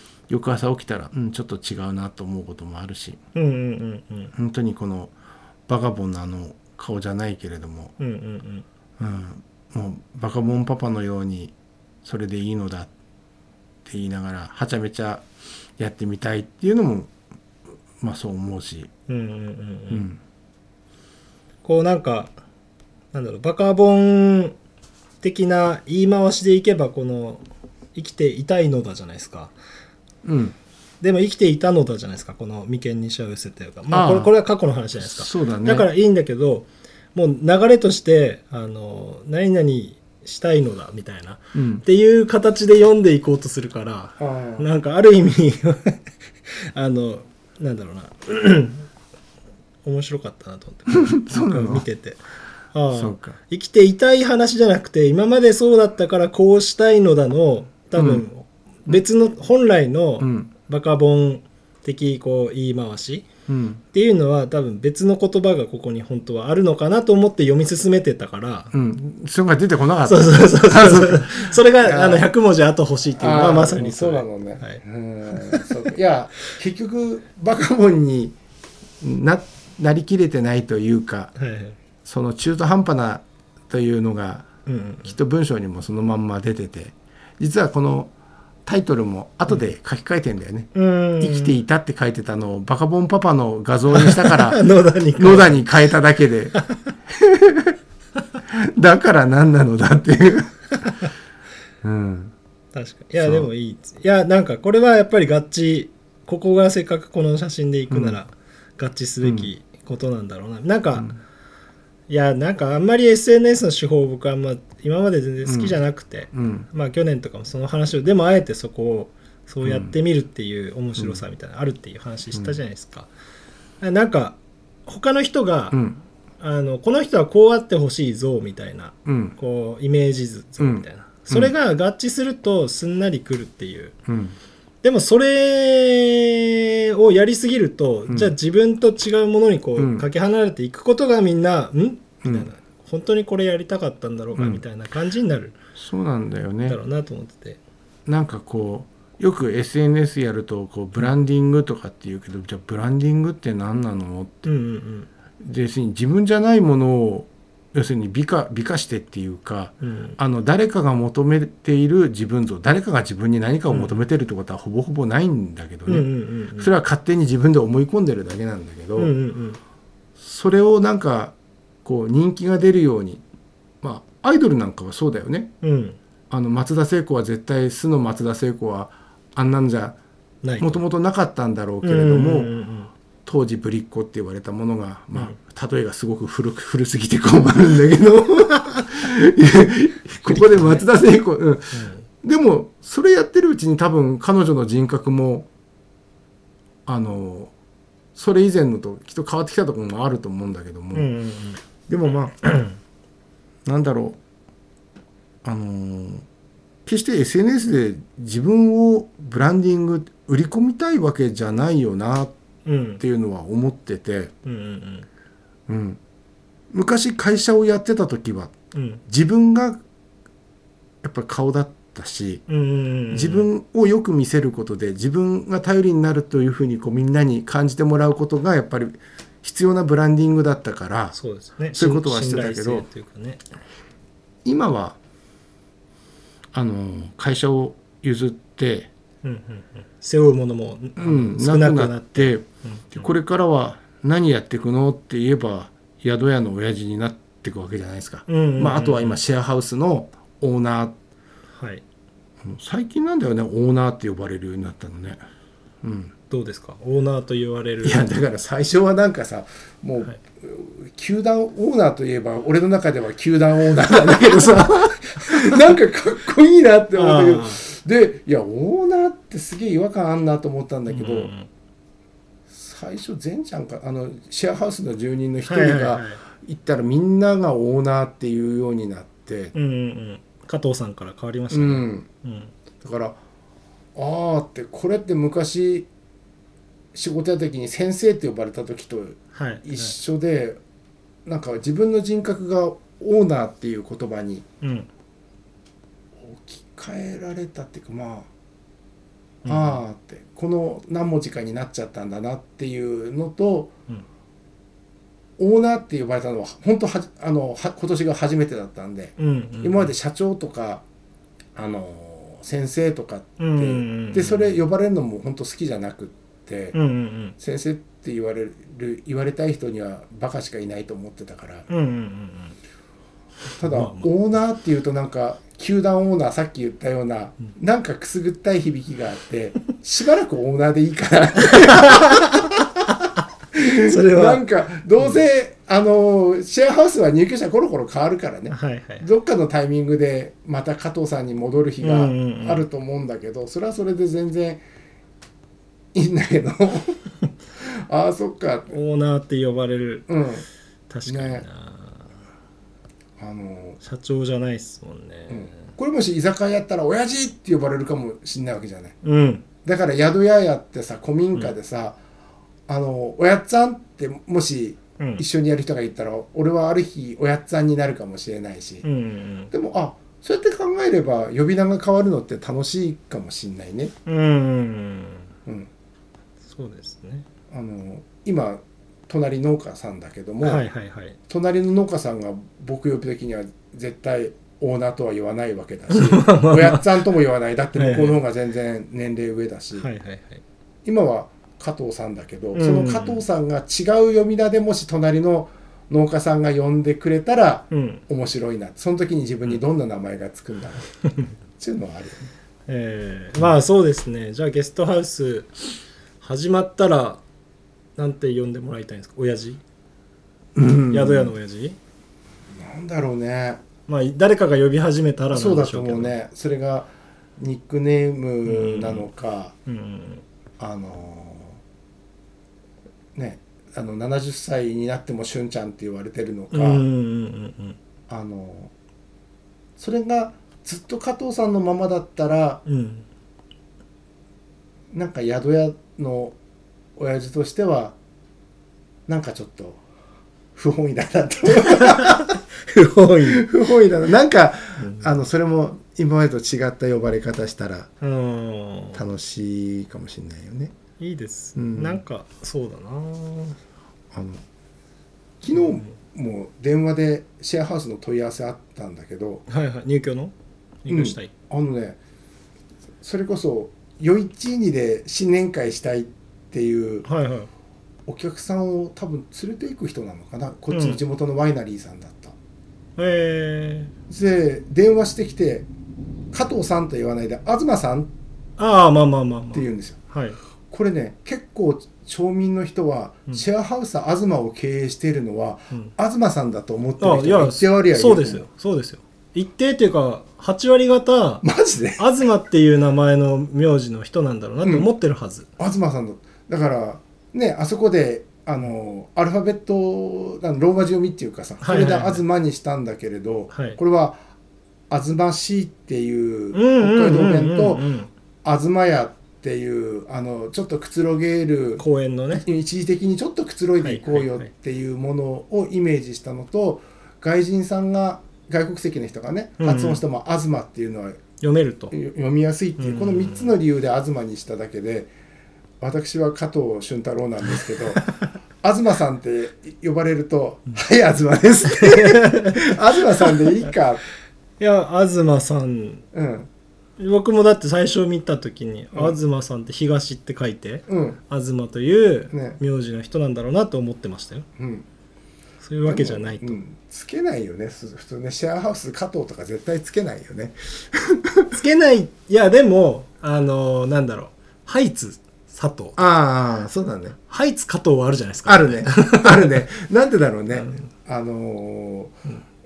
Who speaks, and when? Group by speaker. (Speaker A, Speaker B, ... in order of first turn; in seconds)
Speaker A: 0.3-3.2, 4.3-5.1, 5.7-7.9, 9.0-12.9, 13.8-15.2, 15.8-17.1, 18.0-18.9, 19.9-20.2, 30.2-30.6, 33.9-34.3, 35.0-35.9, 41.5-41.8, 44.2-44.7, 50.9-51.9, 52.9-53.4, 57.9-58.2, 60.2-60.5, 63.5-63.8, 68.7-72.3, 73.2-78.4, 79.0-81.3, 82.0-84.5, 85.0-88.1, 88.7-94.6, 95.2-96.5, 97.1-97.8, 98.5-100.9, 101.8-102.3, 103.2-103.5, 107.9-108.2, 109.2-109.5, 115.4-115.8, 116.3-116.7, 119.6-119.9, 125.7-126.0, 129.1-129.3, 130.6-131.5, 134.1-134.3, 138.1-138.3, 139.8-140.0, 142.2-142.5, 144.3-144.6, 145.8-146.8, 148.1-154.5, 155.4-169.1, 170.2-173.2, 173.8-175.5, 176.3-180.0, 180.6-182.5, 183.2-195.5, 196.8-197.5, 198.1-201.1, 201.9-202.4, 203.6-204.2, 205.4-206.2, 206.8-212.3, 213.0-214.3, 215.7-216.0, 216.7-218.5, 219.1-219.8, 221.0-222.4, 223.1-231.2, 231.7-232.8, 234.4-235.0, 236.5-238.9, 241.0-250.9, 252.4-255.2, 255.8-256.1, 257.8-271.3, 272.5-279.5, 281.5-282.1, 282.8-283.2, 283.9-285.9, 286.9-290.6, 291.2-294.4, 296.2-298.3, 299.4-303.7, 305.4-310.8, 311.5-316.8, 317.4-321.7, 323.6-332.5, 333.5-344.6, 345.9-347.0, 347.6-348.7, 350.1-350.4, 351.1-351.4, 353.2-353.8, 355.3-358.9, 359.6-362.0, 362.7-368.8, 369.5-373.9, 377.5-380.6, 381.3-389.9, 390.8-400.9, 401.5-402.3, 410.5-411.3, 412.5-413.6, 415.3-419.5, 420.6-421.6, 423.1-426.9, 428.1-428.7, 429.8-432.6, 434.9-436.4, 437.0-437.9, 439.1-439.8, 440.5-442.4, 443.2-447.9, 448.9-450.7, 451.6-452.0, 454.1-454.4, 455.4-459.4, 460.9-462.0, 463.0-467.1, 468.1-472.3, 474.1-475.7, 476.3-478.1, 479.5-480.0, 480.7-488.4, 491.4-492.0, 494.6-494.9, 495.6-504.2, 504.9-507.9, 508.4-521.2, 521.9-525.1, 525.8-528.0, 528.6-534.0, 536.1-536.5, 540.9-541.2, 542.3-542.6, 544.6-544.9, 545.8-551.5, 556.0-557.2, 558.5-562.2
Speaker B: 3.3-4.3, 8.0-8.7, 19.1-20.1, 21.6-22.3, 23.1-24.5, 25.2-27.4, 27.9-29.5, 31.0-46.0, 46.7-48.9, 49.8-52.2, 52.7-63.2, 63.9-68.7, 70.0-74.8, 75.3-75.7, 81.3-81.8, 84.7-85.1, 90.7-91.5, 93.9-95.6, 96.5-96.8, 102.7-111.1, 112.1-123.1, 123.8-125.8, 126.4-133.9, 134.8-145.6, 146.7-147.6, 154.4-155.1, 159.8-160.2, 163.7-164.0, 165.9-166.7, 169.0-169.6, 175.6-176.0, 180.4-180.8, 181.8-182.9, 190.2-190.9, 191.7-192.0, 200.9-201.6, 202.4-202.8, 212.7-213.0, 214.4-215.1, 218.7-219.0, 222.5-223.5, 231.1-233.4, 239.2-243.1, 248.3-249.2, 251.5-251.8, 256.3-258.1, 266.9-267.6, 270.9-271.5, 275.4-276.2, 279.5-282.5, 289.3-289.9, 294.6-294.9, 299.4-299.8, 309.2-309.9, 313.4-314.6, 316.7-317.4, 321.7-322.6, 323.6-324.1, 331.5-333.1, 333.6-334.4, 338.5-339.1, 341.8-342.6, 348.7-350.1, 350.9-352.2, 353.8-355.7, 359.0-359.4, 365.0-365.2, 368.8-369.5, 374.1-375.3, 376.5-377.2, 380.4-381.2, 385.9-387.0, 387.8-388.2, 389.8-390.4, 392.5-393.2, 397.7-398.0, 402.7-405.5, 406.2-407.2, 408.0-409.6, 410.9-411.8, 413.9-416.1, 418.4-419.1, 419.6-420.2, 426.5-427.8, 432.6-433.1, 441.6-443.5, 444.8-445.1, 448.0-449.0, 451.0-453.6, 455.5-455.9, 459.5-460.3, 460.8-461.3, 467.0-467.5, 470.7-471.0, 473.0-473.9, 478.6-480.4, 487.0-491.4, 492.0-495.5, 501.6-502.2, 503.5-503.8, 506.5-508.1, 511.8-512.5, 513.8-514.5, 519.6-520.0, 521.4-521.9, 522.8-523.5, 531.8-533.4, 534.6-536.0, 537.0-544.5, 545.6-546.6, 551.5-556.0, 557.3-559.6, 560.5-560.9